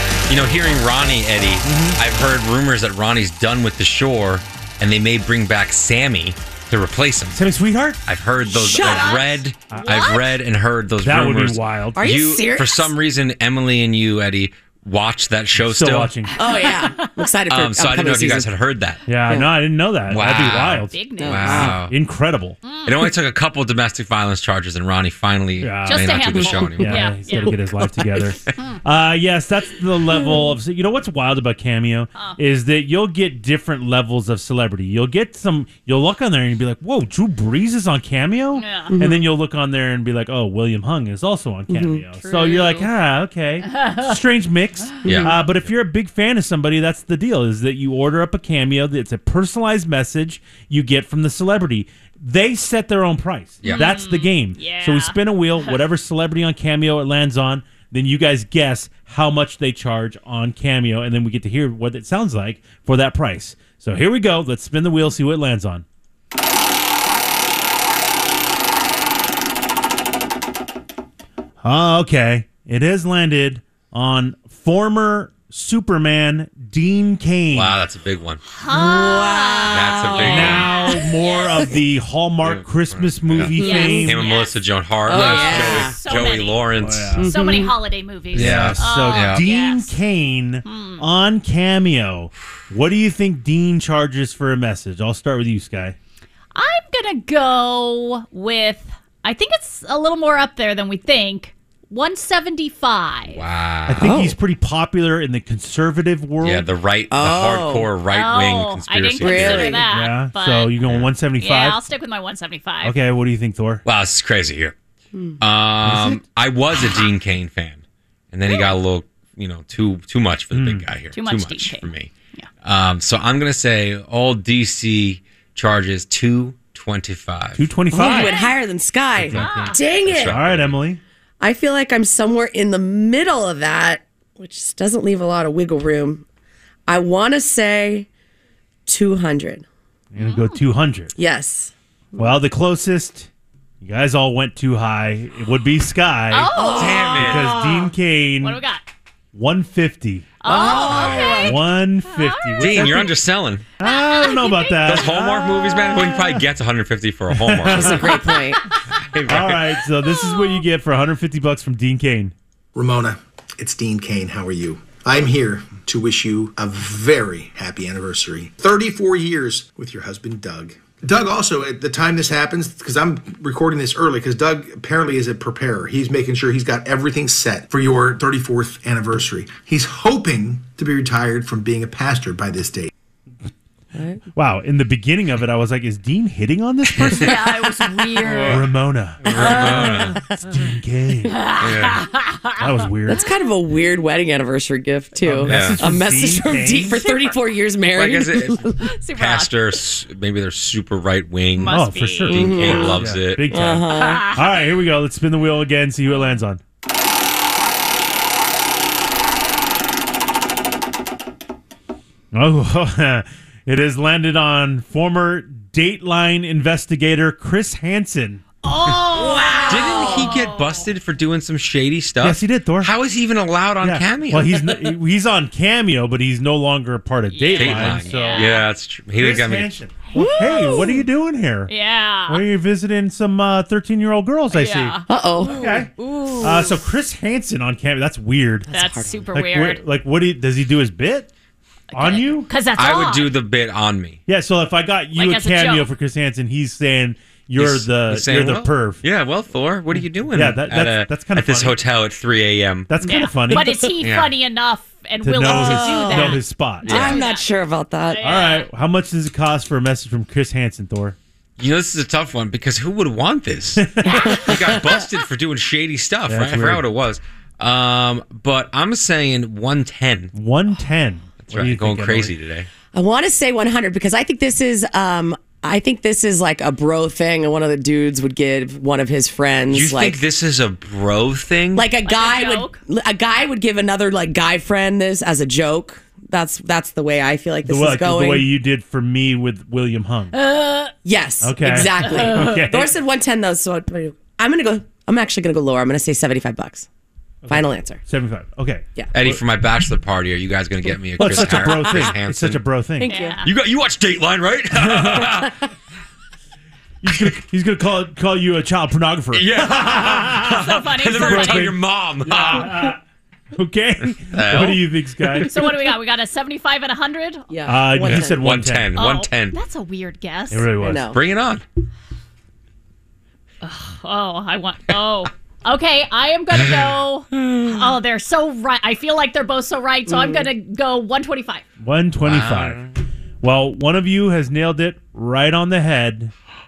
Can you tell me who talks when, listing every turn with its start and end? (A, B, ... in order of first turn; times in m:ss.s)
0:00.3-0:07.4 A
0:01.7-0:01.9 B
0:07.3-0:08.0 B
0:08.0-0:16.1 A
0:08.4-0:09.4 C
0:08.8-0:09.1 D
0:09.7-0:10.0 B
0:09.7-0:10.2 D
0:11.0-0:12.2 B
0:11.9-0:12.9 C
0:15.6-0:16.4 B
0:16.4-0:18.5 C
0:16.6-0:17.1 D
0:17.5-0:19.0 A
0:19.1-0:22.6 B
0:19.2-0:19.5 C
0:20.1-0:21.9 A
0:20.9-0:21.6 D
0:21.2-0:21.8 C
0:22.6-0:22.9 D
0:22.8-0:27.0 A
0:25.6-1:05.8 B
0:25.9-0:27.6 D
0:27.5-0:28.3 C
0:30.1-0:30.5 C
0:38.5-0:38.9 D
0:38.9-0:39.3 C
0:41.7-0:42.0 C
0:42.2-0:42.9 D
0:43.7-0:44.1 D
0:45.0-0:45.4 C
0:45.0-0:45.4 A
0:53.6-0:54.0 A
0:53.6-0:55.8 D
1:11.6-1:17.7 B
1:17.5-1:18.4 A
1:18.5-1:21.6 D
1:18.7-1:20.9 C
1:19.7-1:20.7 A
1:20.3-1:24.2 B
1:22.4-1:27.2 A
1:23.5-1:24.1 C
1:23.6-1:24.5 D
1:25.0-1:26.0 C
1:25.1-1:29.9 D
1:26.8-1:27.3 B
1:27.2-1:27.7 C
1:28.3-1:36.0 B
1:28.3-1:29.4 A
1:30.6-1:31.0 D
1:36.5-1:43.4 D
1:43.3-1:44.2 A
1:43.9-1:46.6 B
1:44.0-1:44.4 C
1:46.4-1:49.8 A
1:47.1-1:47.9 C
1:48.1-1:50.8 D
1:49.2-1:49.9 C
1:49.8-1:51.8 B
1:50.8-1:51.1 A
1:51.4-1:53.0 D
1:52.8-1:53.8 B
1:53.8-1:54.7 A
1:55.1-1:55.4 C
1:55.4-2:02.1 A
1:55.8-1:56.2 B
2:00.5-2:00.8 B
2:01.1-2:02.5 D
2:02.6-2:07.7 A
2:07.6-2:08.4 B
2:07.9-2:10.4 C
2:08.0-2:08.5 D
2:09.2-2:11.0 B
2:09.3-2:09.8 D
2:09.4-2:10.8 A
2:11.4-2:16.2 C
2:16.9-2:18.1 C
2:18.9-2:19.6 C
2:20.1-2:21.1 B
2:20.2-2:20.6 D
2:21.2-2:22.4 C
2:22.2-2:23.3 B
2:23.8-2:26.5 B
2:26.3-2:27.4 D
2:26.5-2:27.9 C
2:26.7-2:27.6 A
2:27.1-2:28.6 B
2:28.4-2:28.8 D
2:29.3-2:33.1 B
2:30.4-2:33.1 D
2:30.4-2:31.6 C
2:32.6-2:33.6 A
2:33.8-2:36.4 B
2:33.8-2:35.2 D
2:34.8-2:38.2 A
2:37.3-2:38.2 B
2:37.7-2:38.6 C
2:39.0-2:39.6 A
2:39.3-2:42.3 B
2:40.0-2:40.6 D
2:42.7-3:02.9 E
3:03.9-3:04.2 C
3:04.3-3:11.6 B
3:07.1-3:08.7 D
3:08.2-3:08.6 A
3:09.2-3:10.2 A
3:09.2-3:10.2 C
3:11.3-3:12.6 D
3:11.6-3:12.0 A
3:12.6-3:13.2 B
3:13.1-3:18.8 C
3:15.2-3:17.0 B
3:15.5-3:15.8 A
3:16.9-3:17.3 D
3:17.9-3:23.7 A
3:18.8-3:19.6 D
3:21.6-3:22.4 D
3:21.7-3:26.6 B
3:22.3-3:24.4 C
3:23.9-3:24.4 D
3:26.1-3:26.4 D
3:32.3-3:38.4 B
3:38.6-3:40.8 D
3:39.1-3:40.4 C
3:39.7-3:44.9 A
3:42.2-3:42.9 B
3:43.8-3:48.6 B
3:47.3-3:48.6 D
3:47.6-3:49.7 A
3:49.1-3:51.7 B
3:50.1-3:50.8 D
3:50.4-3:51.0 C
3:51.7-3:52.4 D
3:52.3-3:58.7 B
3:54.5-3:55.0 D
3:55.1-3:56.8 C
3:58.7-3:59.3 C
3:58.7-3:59.8 D
3:59.3-4:01.3 B
4:01.9-4:03.3 D
4:01.9-4:02.5 B
4:02.8-4:04.2 A
4:04.3-4:09.0 B
4:05.1-4:05.9 D
4:07.6-4:12.9 A
4:10.3-4:11.8 B
4:12.9-4:14.0 B
4:13.0-4:17.5 D
4:14.0-4:14.3 A
4:15.2-4:17.2 B
4:15.4-4:18.4 C
4:16.8-4:17.2 A
4:18.1-4:18.7 D
4:18.2-4:21.2 B
4:21.6-4:30.3 A
4:23.8-4:24.3 B
4:24.0-4:25.0 C
4:24.0-4:24.5 D
4:26.3-4:26.8 B
4:30.3-4:32.3 B
4:31.5-4:32.7 A
4:32.9-4:40.2 C
4:39.7-4:41.9 A
4:41.7-4:48.5 C
4:42.0-4:42.8 D
4:47.6-4:50.4 B
4:50.3-4:50.9 D
4:51.0-4:56.9 C
4:51.4-4:52.9 B
4:52.0-4:52.7 D
4:57.4-4:59.4 B
4:57.5-4:58.0 C
4:59.1-5:02.6 A
5:01.2-5:03.1 B
5:01.2-5:02.1 C
5:03.0-5:03.4 C
5:03.0-5:03.5 D
5:03.4-5:05.6 A
5:04.7-5:05.5 B
5:07.0-5:13.0 B
5:09.3-5:12.9 A
5:10.5-5:11.7 D
5:13.5-5:15.7 B
5:14.3-5:15.4 A
5:15.5-5:17.5 D
5:17.5-5:18.4 C
5:17.6-5:18.9 B
5:18.0-5:19.6 A
5:18.9-5:20.7 D
5:20.5-5:21.1 B
5:20.8-5:21.2 C
5:21.1-5:21.6 A
5:23.6-5:31.6 D
5:30.1-5:30.5 C
5:31.8-5:32.8 B
5:32.2-5:32.9 A
5:33.4-5:36.3 B